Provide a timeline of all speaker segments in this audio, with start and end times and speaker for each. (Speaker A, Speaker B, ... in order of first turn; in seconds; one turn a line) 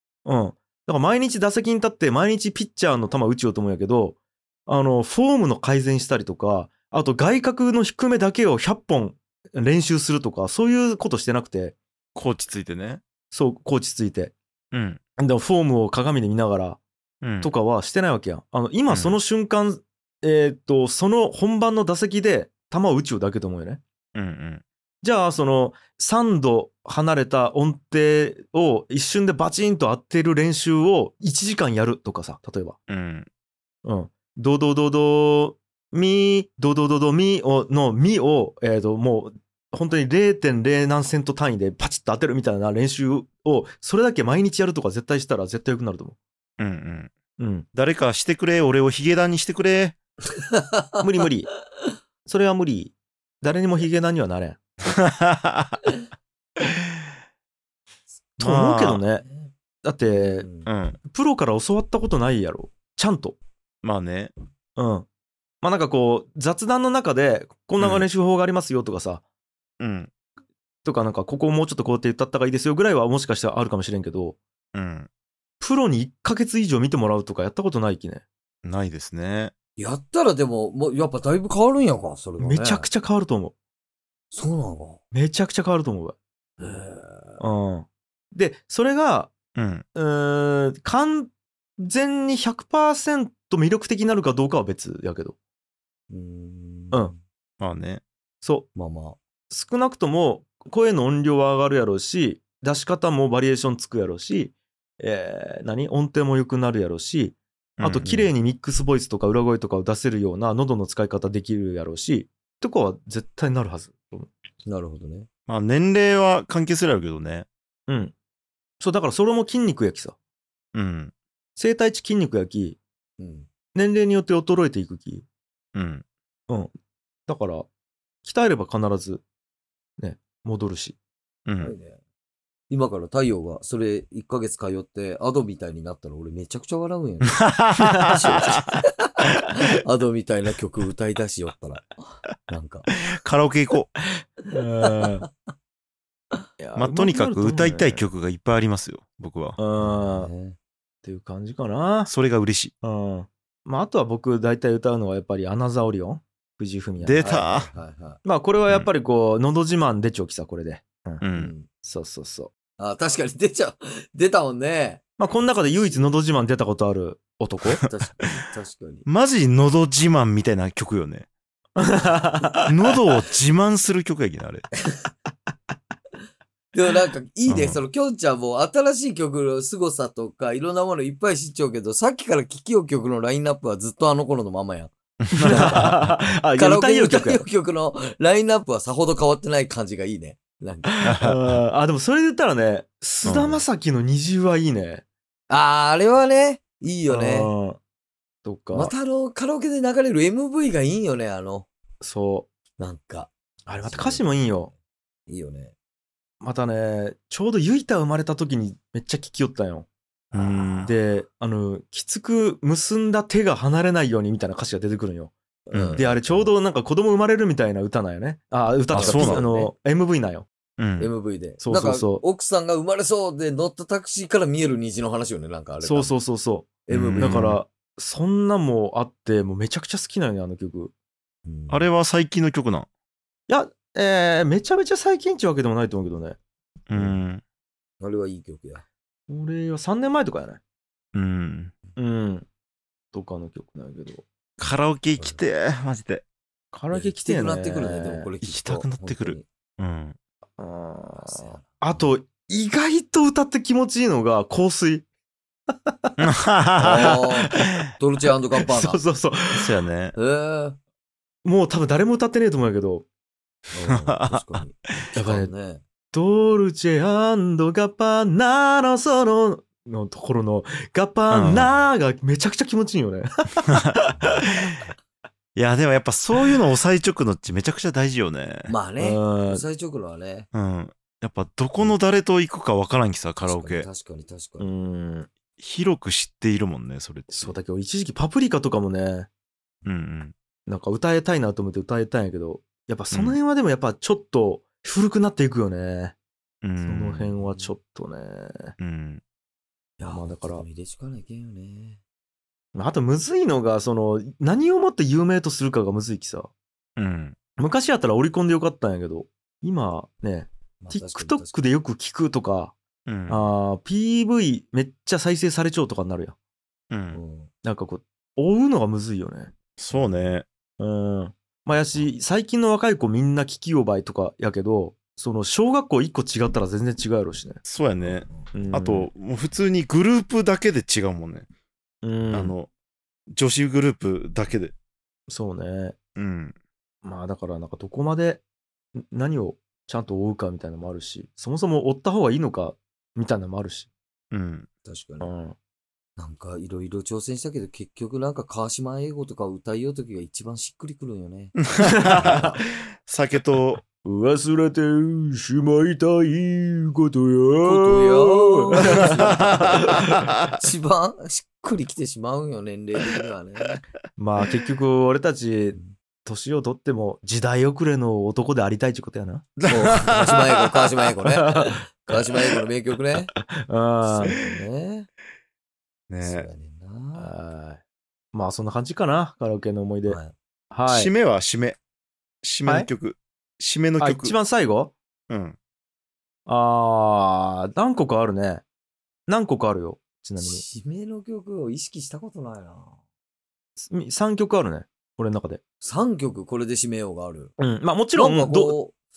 Speaker A: 0.3-11.8
Speaker B: 12.2-13.0
Speaker A: 13.3-14.3
Speaker B: 14.7-15.0
Speaker A: 15.2-16.8
Speaker B: 17.2-17.5
Speaker A: 17.4-23.8
Speaker B: 18.9-19.2
Speaker B: 24.1-24.6
Speaker A: 25.0-32.8
Speaker B: 32.9-33.3
Speaker A: 33.8-46.2
Speaker B: 46.6-47.1
Speaker A: 47.4-47.7
Speaker B: 47.7-50.0
Speaker C: 50.3-51.0
Speaker A: 51.0-51.5
Speaker A: 52.2-54.6
Speaker B: 54.9-55.8
Speaker B: 56.6-56.9
Speaker B: 58.4-59.0
Speaker A: 58.4-59.2
Speaker C: 59.2-59.5
Speaker A: 59.8-60.5
Speaker C: 60.1-60.7
Speaker B: 60.7-61.0
Speaker A: 61.1-63.4
Speaker B: 63.8-64.3
Speaker A: 64.8-65.1
Speaker A: 65.6-69.2
Speaker B: 67.8-68.1
Speaker B: 69.8-70.1
Speaker A: 70.8-74.4
Speaker B: 74.7-75.1
Speaker A: 75.6-78.2
Speaker B: 78.6-79.5
Speaker C: 79.8-82.9
Speaker A: 82.4-83.5
Speaker C: 84.3-85.0
Speaker A: 85.1-86.2
Speaker C: 86.6-87.4
Speaker A: 87.4-89.3
Speaker B: 89.5-89.8
Speaker A: 90.0-95.4
Speaker C: 96.1-97.2
Speaker B: 97.6-98.0
Speaker A: 98.4-98.7
Speaker C: 98.8-99.2
Speaker A: 99.5-114.3
Speaker B: 107.8-108.2
Speaker C: 114.7-115.3
Speaker B: 115.5-117.5
Speaker A: 117.9-118.1
Speaker A: 118.8-120.2
Speaker B: 120.7-121.1
Speaker A: 121.6-122.8
Speaker C: 123.2-123.5
Speaker A: 123.7-125.2
Speaker B: 125.8-126.0
Speaker A: 127.3-127.7
Speaker A: 128.2-129.2
Speaker A: 130.0-131.0
Speaker B: 131.5-131.8
Speaker C: 131.6-132.0
Speaker C: 132.7-142.9
Speaker B: 137.4-138.8
Speaker A: 137.8-138.1
Speaker B: 143.1-143.9
Speaker A: 144.5-145.3
Speaker A: 146.6-148.0
Speaker B: 146.8-149.6
Speaker A: 149.6-150.3
Speaker C: 149.8-150.6
Speaker A: 151.0-152.1
Speaker B: 152.1-152.7
Speaker A: 152.8-157.4
Speaker B: 157.0-157.7
Speaker C: 157.2-158.2
Speaker A: 158.2-161.2
Speaker B: 161.2-161.5
Speaker C: 161.3-161.7
Speaker A: 161.8-162.5
Speaker C: 162.8-165.0
Speaker A: 165.2-167.8
Speaker C: 167.8-169.1
Speaker B: 169.1-171.3
Speaker A: 171.8-172.7
Speaker B: 172.7-174.7
Speaker C: 176.7-186.0
Speaker B: 177.5-177.8
Speaker B: 185.2-186.2
Speaker A: 185.4-187.4
Speaker C: 186.6-191.0
Speaker A: 190.9-195.0
Speaker B: 191.1-191.5
Speaker B: 193.2-193.6
Speaker C: 195.5-197.5
Speaker A: 197.1-197.8
Speaker A: 198.4-198.9
Speaker C: 198.7-201.7
Speaker A: 202.0-202.5
Speaker C: 202.8-204.8
Speaker A: 203.7-204.7
Speaker C: 205.3-205.7
Speaker A: 206.4-209.9
Speaker C: 210.3-210.9
Speaker B: 210.3-210.9
Speaker A: 210.9-215.3
Speaker C: 215.7-216.5
Speaker B: 215.7-216.0
Speaker A: 215.9-220.5
Speaker C: 218.9-219.7
Speaker B: 218.9-219.4
Speaker B: 220.8-221.1
Speaker C: 221.0-226.1
Speaker A: 221.6-222.2
Speaker A: 225.8-230.9
Speaker C: 226.9-227.5
Speaker B: 226.9-227.6
Speaker C: 231.5-231.9
Speaker B: 231.7-232.9
Speaker A: 233.5-236.4
Speaker B: 236.9-237.4
Speaker C: 236.9-237.2
Speaker C: 238.0-238.8
Speaker A: 239.3-240.6
Speaker B: 241.1-241.7
Speaker A: 242.0-242.5
Speaker A: 243.1-244.3
Speaker B: 244.6-246.2
Speaker A: 246.7-248.3
Speaker C: 246.9-249.4
Speaker B: 248.4-250.2
Speaker A: 250.6-255.1
Speaker C: 251.2-252.1
Speaker A: 255.7-256.2
Speaker B: 256.2-257.8
Speaker C: 256.8-259.0
Speaker A: 258.6-259.7
Speaker B: 259.6-260.1
Speaker C: 260.2-260.8
Speaker A: 261.4-263.1
Speaker C: 263.7-265.8
Speaker B: 263.9-264.6
Speaker A: 265.2-265.5
Speaker A: 266.1-274.4
Speaker B: 271.3-271.7
Speaker B: 273.7-274.8
Speaker B: 275.6-278.7
Speaker C: 278.7-280.5
Speaker A: 279.0-279.6
Speaker B: 280.5-283.9
Speaker C: 283.4-284.7
Speaker A: 284.6-285.3
Speaker B: 285.6-287.6
Speaker A: 287.3-289.3
Speaker B: 289.9-290.3
Speaker A: 290.7-296.1
Speaker B: 293.1-293.4
Speaker B: 296.6-297.3
Speaker A: 296.8-298.8
Speaker C: 297.4-297.7
Speaker B: 298.8-299.2
Speaker C: 300.0-302.0
Speaker A: 300.1-300.6
Speaker A: 302.8-306.5
Speaker B: 307.0-307.4
Speaker A: 307.6-312.8
Speaker C: 310.8-311.6
Speaker B: 313.1-313.5
Speaker A: 313.3-316.4
Speaker B: 316.9-317.2
Speaker C: 317.1-317.5
Speaker A: 317.6-319.5
Speaker B: 319.8-320.5
Speaker A: 320.8-327.6
Speaker B: 327.7-331.5
Speaker C: 328.0-328.5
Speaker A: 328.5-329.1
Speaker A: 332.0-332.6
Speaker B: 332.3-332.7
Speaker B: 333.3-334.7
Speaker A: 335.3-336.0
Speaker B: 336.2-336.6
Speaker A: 337.0-338.4
Speaker A: 338.9-343.9
Speaker B: 344.3-344.7
Speaker C: 344.9-345.3
Speaker A: 345.2-345.6
Speaker C: 346.2-351.6
Speaker B: 351.7-353.8
Speaker A: 351.8-352.5
Speaker C: 352.1-352.5
Speaker A: 354.0-360.3
Speaker C: 357.6-363.8
Speaker B: 358.8-360.6
Speaker A: 364.2-369.5
Speaker B: 369.6-370.9
Speaker C: 369.7-373.4
Speaker A: 371.3-371.8
Speaker A: 373.5-374.4
Speaker C: 374.0-375.1
Speaker B: 376.1-376.5
Speaker C: 376.2-377.3
Speaker A: 377.2-377.8
Speaker A: 378.3-380.2
Speaker C: 380.1-380.3
Speaker A: 380.7-381.1
Speaker B: 380.9-381.8
Speaker B: 382.4-384.3
Speaker A: 384.0-384.9
Speaker B: 385.3-385.6
Speaker A: 386.5-388.6
Speaker A: 389.3-390.6
Speaker C: 390.4-393.0
Speaker A: 393.8-395.6
Speaker C: 395.8-397.5
Speaker A: 397.6-398.8
Speaker C: 398.1-399.0